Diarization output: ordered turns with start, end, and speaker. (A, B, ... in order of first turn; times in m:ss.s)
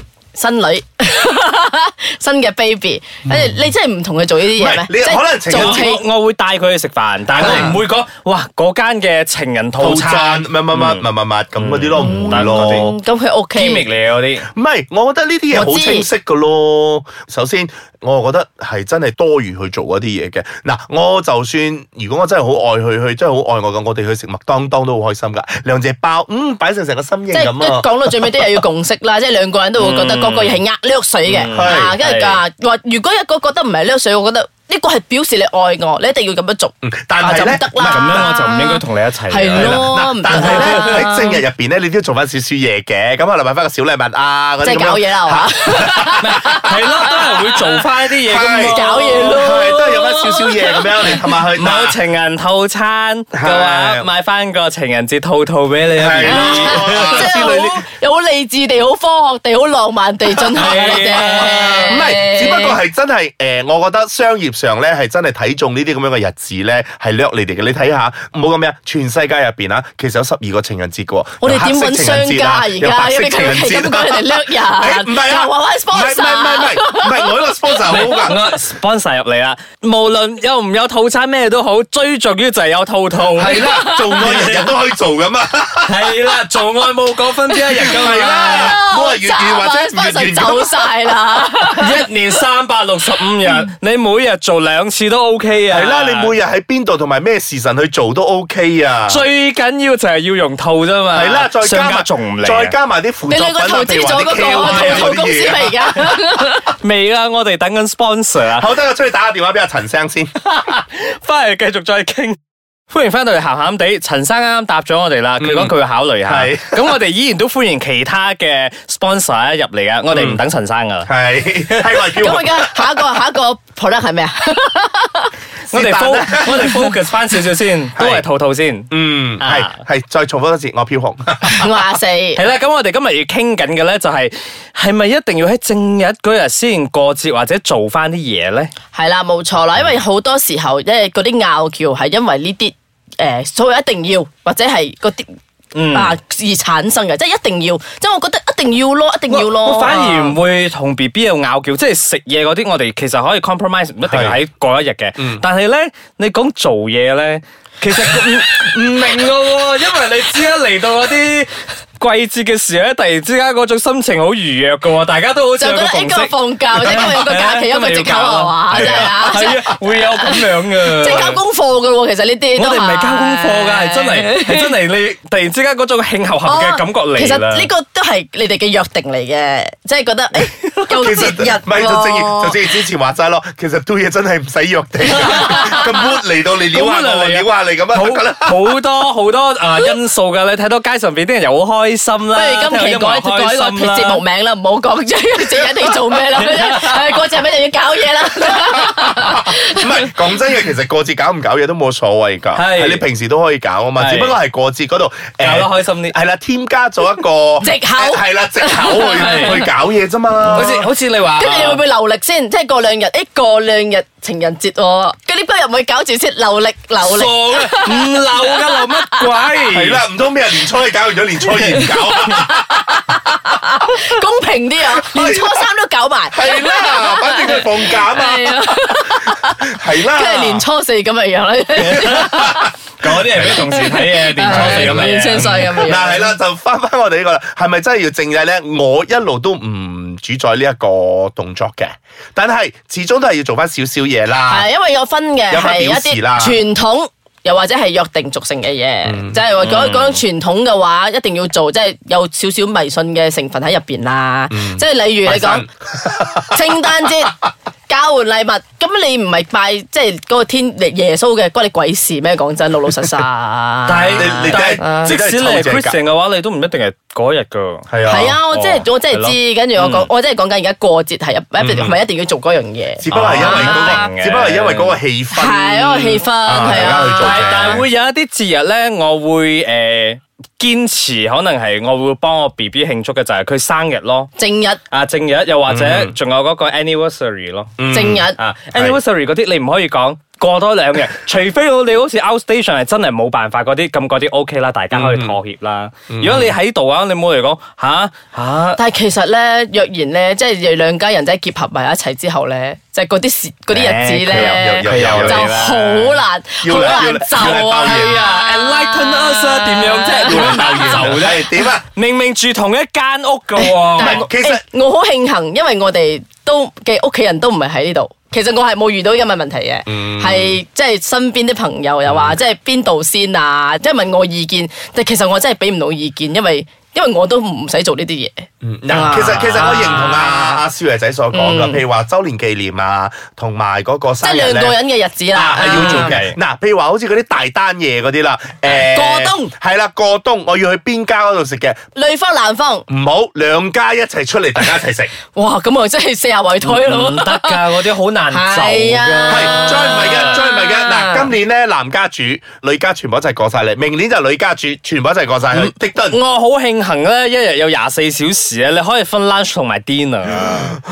0:00.3-0:06.0 A
0:03.3-0:03.6 B
0:04.5-0:05.9 B
0:05.5-0:11.0 C
0:07.4-0:07.8 B
0:07.4-0:07.7 A
0:09.8-0:12.9 B
0:11.6-0:13.0 C
0:12.0-0:13.9 A
0:13.6-0:14.5 C
0:14.5-0:28.6 B
0:15.5-0:16.1 A
0:27.3-0:41.4 A
0:29.8-0:30.6 C
0:31.2-0:32.4 C
0:31.5-0:32.0 B
0:36.8-0:38.3 B
0:37.8-0:41.0 C
0:39.6-0:46.2 B
0:44.6-0:47.6 A
0:46.2-0:49.7 C
0:48.2-0:52.0 B
0:48.4-0:50.9 A
0:51.0-0:57.3 C
0:53.3-0:54.1 B
0:56.0-0:57.8 B
0:56.2-1:02.8 A
1:00.4-1:18.4 B
1:00.6-1:02.0 C
1:11.4-1:17.9 A
1:17.9-1:24.7 C
1:23.4-1:26.3 B
1:23.5-1:24.4 A
1:25.8-1:28.8 C
1:27.7-1:31.1 B
1:28.2-1:32.0 A
1:31.8-1:36.3 C
1:35.7-1:39.2 B
1:39.1-1:42.7 C
1:41.1-1:46.0 B
1:43.3-1:46.7 A
1:44.6-1:45.1 C
1:46.6-1:48.6 C
1:48.5-1:50.3 B
1:50.4-1:52.4 C
1:52.9-2:01.1 C
1:55.4-1:56.9 B
2:00.1-2:00.4 B
2:01.0-2:03.0 B
2:02.2-2:05.3 A
2:05.7-2:06.9 B
2:05.7-2:09.8 C
2:08.0-2:08.2 B
2:08.9-2:11.7 B
2:11.4-2:12.4 A
2:12.4-2:18.7 C
2:18.9-2:25.3 A
2:25.7-2:26.2 C
2:25.9-2:30.4 A
2:29.3-2:51.4 C
2:34.1-2:34.4 B
2:35.2-2:35.4 B
2:45.6-2:54.7 A
2:48.7-2:49.1 B
2:52.6-2:57.7 C
2:56.4-3:02.7 A
3:00.9-3:08.8 B
3:05.1-3:06.0 A
3:05.2-3:05.8 C
3:06.7-3:14.2 C
3:12.3-3:20.1 A
3:15.5-3:16.1 B
3:16.3-3:17.3 C
3:18.4-3:30.8 B
3:22.6-3:23.0 C
3:24.0-3:24.4 C
3:25.4-3:26.2 C
3:27.6-3:29.7 A
3:29.2-3:29.6 C
3:30.5-3:30.8 A
3:30.5-3:31.8 C
3:31.4-3:39.3 A
3:37.0-3:40.0 C
3:39.7-3:43.3 B
3:41.6-3:52.7 A
3:44.9-3:45.7 B
3:46.3-3:50.6 B
3:51.8-4:04.7 B
3:51.8-3:55.9 C
3:53.4-3:56.4 A
4:04.5-4:15.7 A
4:05.5-4:06.6 B
4:09.0-4:09.4 B
4:09.6-4:10.2 C
4:14.5-4:16.9 B
4:16.4-4:25.1 A
4:23.9-4:30.1 C
4:24.2-4:26.0 B
4:27.9-4:28.4 B
4:28.1-4:34.1 A
4:31.6-4:32.0 B
4:33.0-4:37.9 B
4:33.1-4:35.0 C
4:35.3-4:37.8 A
4:36.6-4:44.3 C
4:44.4-4:44.8 A
4:44.9-4:47.8 C
4:45.7-4:46.2 B
4:47.8-4:49.0 B
4:47.9-4:48.4 A
4:48.4-4:58.8 C
4:54.9-4:55.4 B
4:56.1-4:56.6 B
4:58.8-5:11.2 A
5:03.7-5:06.2 C
5:04.3-5:05.6 B
5:06.6-5:08.2 B
5:06.7-5:14.2 C
5:10.3-5:11.8 B
5:13.6-5:30.6 A
5:14.0-5:14.6 B
5:19.9-5:20.6 B
5:22.1-5:22.4 B
5:28.6-5:34.8 B
5:29.0-5:29.9 C
5:31.3-5:31.8 A
5:34.2-5:36.2 A
5:35.3-5:41.8 B
5:35.7-5:36.4 C
5:38.7-5:39.5 A
5:41.9-5:42.9 A
5:42.9-5:45.1 B
5:45.3-5:47.6 A
5:46.6-5:50.4 C
5:48.3-5:51.3 A
5:49.3-5:56.2 B
5:55.5-6:00.8 C